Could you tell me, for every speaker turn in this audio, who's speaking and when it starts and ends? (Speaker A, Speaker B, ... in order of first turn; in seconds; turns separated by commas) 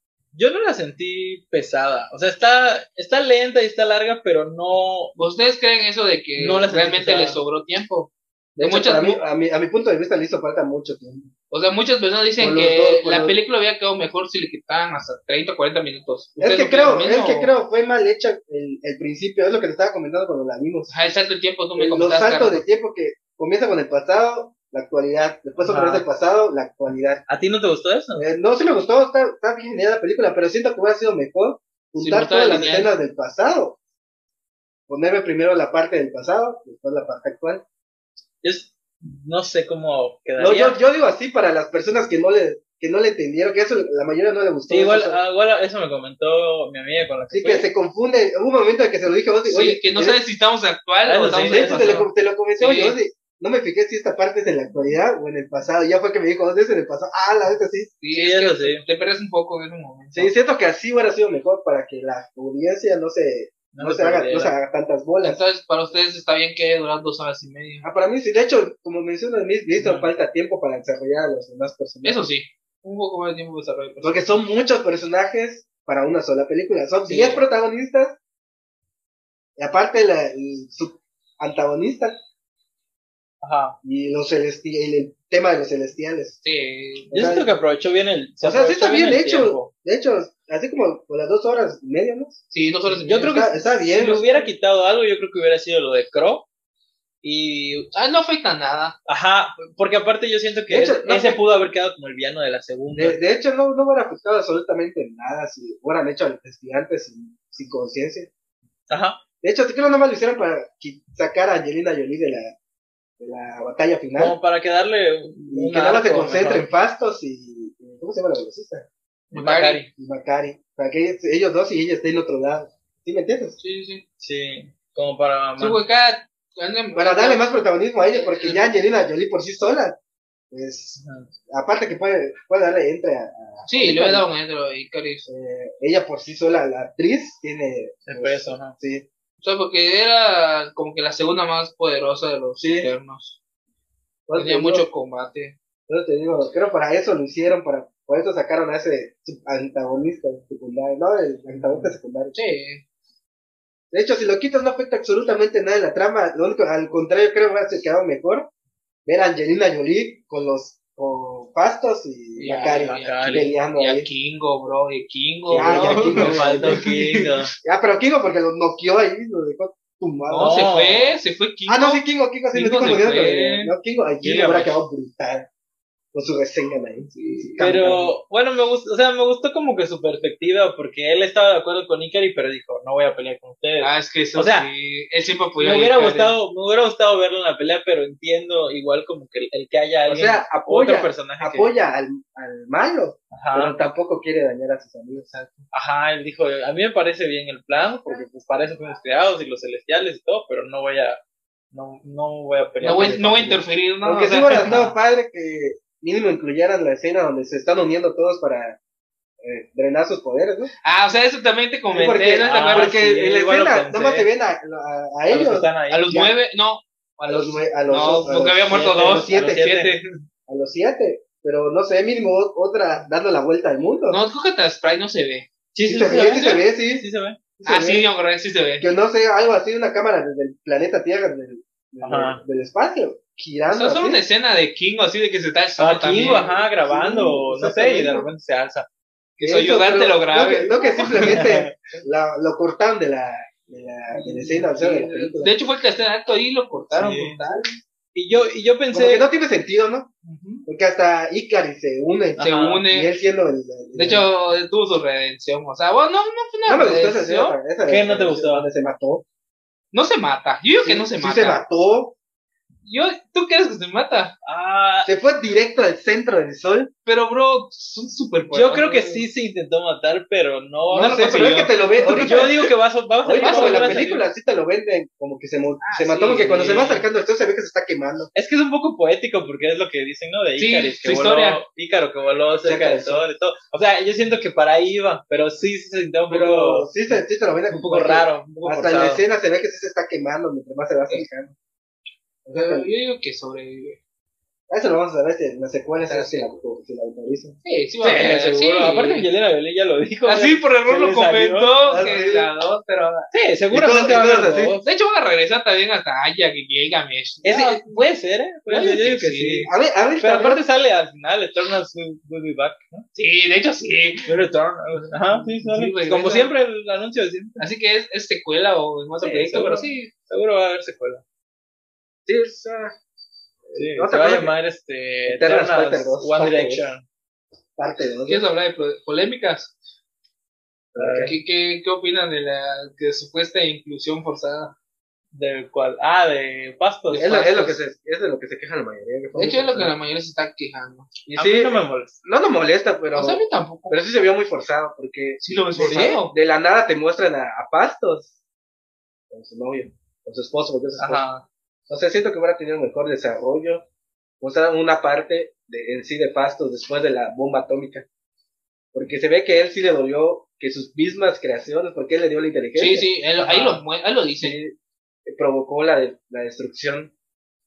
Speaker A: 0.3-5.1, Speaker B: 5.2-9.2, Speaker A: 6.4-7.4, Speaker C: 8.6-11.3, Speaker B: 11.5-17.5, Speaker C: 12.4-13.3, Speaker C: 16.4-20.9, Speaker B: 20.9-22.6, Speaker C: 21.8-27.2, Speaker A: 25.6-26.0, Speaker A: 27.3-28.2, Speaker C: 28.2-33.8, Speaker B: 32.0-32.9, Speaker C: 34.9-37.6, Speaker A: 38.4-40.8, Speaker C: 40.4-45.2, Speaker A: 44.7-47.7, Speaker C: 47.3-50.2, Speaker B: 49.5-53.0, Speaker A: 51.0-52.1, Speaker C: 51.5-57.9, Speaker B: 58.0-60.3, Speaker A: 58.1-58.8, Speaker C: 60.1-65.4, Speaker A: 63.7-64.5, Speaker B: 65.2-67.9, Speaker C: 67.8-72.2, Speaker A: 69.8-70.1, Speaker B: 72.0-74.3, Speaker C: 74.0-78.2, Speaker A: 77.1-77.3, Speaker C: 79.6-82.2, Speaker A: 83.4-83.8, Speaker C: 83.8-86.4, Speaker B: 86.4-87.1, Speaker C: 87.1-87.5, Speaker A: 87.1-89.7, Speaker C: 88.4-92.4, Speaker B: 92.5-93.6, Speaker A: 92.9-96.5, Speaker C: 93.2-94.4, Speaker A: 97.2-97.9, Speaker B: 97.9-98.9, Speaker A: 99.0-103.2, Speaker C: 100.7-101.4, Speaker C: 102.9-108.3, Speaker A: 108.9-109.2, Speaker C: 109.4-112.5, Speaker C: 113.2-114.3, Speaker A: 114.2-116.7, Speaker C: 115.5-118.9, Speaker A: 119.3-119.9, Speaker B: 119.3-119.8, Speaker C: 119.9-123.6, Speaker B: 123.6-124.0, Speaker A: 124.2-125.8, Speaker B: 125.6-127.5, Speaker C: 126.9-130.0, Speaker B: 128.1-128.7, Speaker C: 130.5-134.3, Speaker A: 131.0-131.3, Speaker B: 133.7-135.3, Speaker C: 135.3-139.1, Speaker A: 138.1-138.7, Speaker B: 139.4-143.4, Speaker C: 142.6-142.9, Speaker C: 144.3-144.8, Speaker B: 144.3-145.5, Speaker C: 145.9-152.4, Speaker A: 151.6-151.9, Speaker B: 152.3-152.8, Speaker C: 153.9-158.5, Speaker C: 159.1-164.1, Speaker B: 162.4-167.3, Speaker A: 162.4-163.5, Speaker A: 165.5-167.5, Speaker C: 165.5-166.8, Speaker C: 167.6-170.5, Speaker B: 170.3-173.7, Speaker A: 170.4-171.1, Speaker C: 171.7-175.5, Speaker A: 172.9-173.3, Speaker A: 174.2-174.7, Speaker C: 176.1-178.1, Speaker B: 177.1-177.6, Speaker A: 177.6-184.7, Speaker B: 183.8-186.3, Speaker A: 185.6-191.7, Speaker C: 190.1-195.3, Speaker A: 193.3-193.8, Speaker B: 195.2-195.7, Speaker A: 195.7-201.2, Speaker A: 201.7-203.6, Speaker C: 202.8-203.2, Speaker B: 202.8-204.8, Speaker C: 204.0-208.8, Speaker A: 204.6-204.9, Speaker C: 209.4-210.7, Speaker B: 210.8-212.9, Speaker C: 211.9-216.3, Speaker A: 212.4-214.3, Speaker A: 215.3-216.2, Speaker B: 215.9-220.1, Speaker C: 217.3-219.6, Speaker A: 218.7-219.9, Speaker C: 220.5-224.2, Speaker B: 224.1-225.5, Speaker A: 225.7-227.4, Speaker C: 225.8-227.0, Speaker B: 226.2-226.6, Speaker C: 227.6-228.1, Speaker B: 227.6-228.9, Speaker C: 228.8-234.2, Speaker A: 232.0-232.4, Speaker B: 233.7-236.4, Speaker A: 235.8-238.9, Speaker C: 236.2-238.3, Speaker B: 239.4-241.5, Speaker C: 239.4-245.5, Speaker A: 241.3-241.7, Speaker B: 244.6-247.8, Speaker A: 244.6-244.9, Speaker A: 246.9-247.4, Speaker C: 247.4-247.7, Speaker A: 248.1-249.2, Speaker C: 248.9-250.1, Speaker B: 250.2-250.7, Speaker C: 250.7-254.3, Speaker A: 252.4-252.8, Speaker B: 252.4-253.1, Speaker B: 253.9-257.6, Speaker C: 256.7-259.2, Speaker A: 257.9-258.7, Speaker B: 259.9-261.6, Speaker C: 260.8-262.1, Speaker B: 262.8-264.3, Speaker A: 264.4-265.1, Speaker C: 265.0-266.9, Speaker B: 267.1-269.2, Speaker A: 268.5-274.2, Speaker C: 270.9-272.6, Speaker B: 270.9-272.6, Speaker C: 273.2-278.3, Speaker B: 273.4-274.0, Speaker B: 275.8-276.8, Speaker A: 276.4-277.0, Speaker A: 278.3-286.9, Speaker B: 280.6-281.6, Speaker C: 282.6-283.2, Speaker C: 286.3-291.5, Speaker A: 287.7-289.2, Speaker C: 292.4-292.9, Speaker B: 292.5-294.0, Speaker C: 294.7-297.6, Speaker B: 296.0-296.5, Speaker B: 297.6-299.3, Speaker A: 298.0-302.1, Speaker B: 300.2-303.3, Speaker C: 301.9-302.5, Speaker A: 303.3-304.9, Speaker C: 303.7-304.7, Speaker B: 304.8-308.1, Speaker A: 307.4-313.0, Speaker B: 308.7-309.7, Speaker C: 309.7-310.6, Speaker B: 313.1-316.5, Speaker A: 314.2-317.6, Speaker B: 317.6-320.1, Speaker A: 319.2-321.2, Speaker C: 322.2-322.9, Speaker C: 323.6-324.5, Speaker A: 323.7-327.0, Speaker C: 325.3-326.9, Speaker C: 327.8-328.4, Speaker B: 328.3-329.7, Speaker C: 330.9-331.3, Speaker A: 331.0-331.3, Speaker B: 331.2-334.7, Speaker A: 335.3-337.5, Speaker C: 337.1-339.9, Speaker B: 337.1-337.8, Speaker B: 339.3-341.1, Speaker C: 341.2-348.3, Speaker A: 341.4-342.2, Speaker B: 343.1-344.0, Speaker B: 345.4-346.3, Speaker A: 345.8-346.2, Speaker C: 349.3-351.2, Speaker A: 351.0-351.4, Speaker C: 351.9-353.9, Speaker C: 354.4-358.1, Speaker C: 358.9-363.6, Speaker B: 362.8-364.6, Speaker A: 363.5-363.8, Speaker C: 364.4-367.1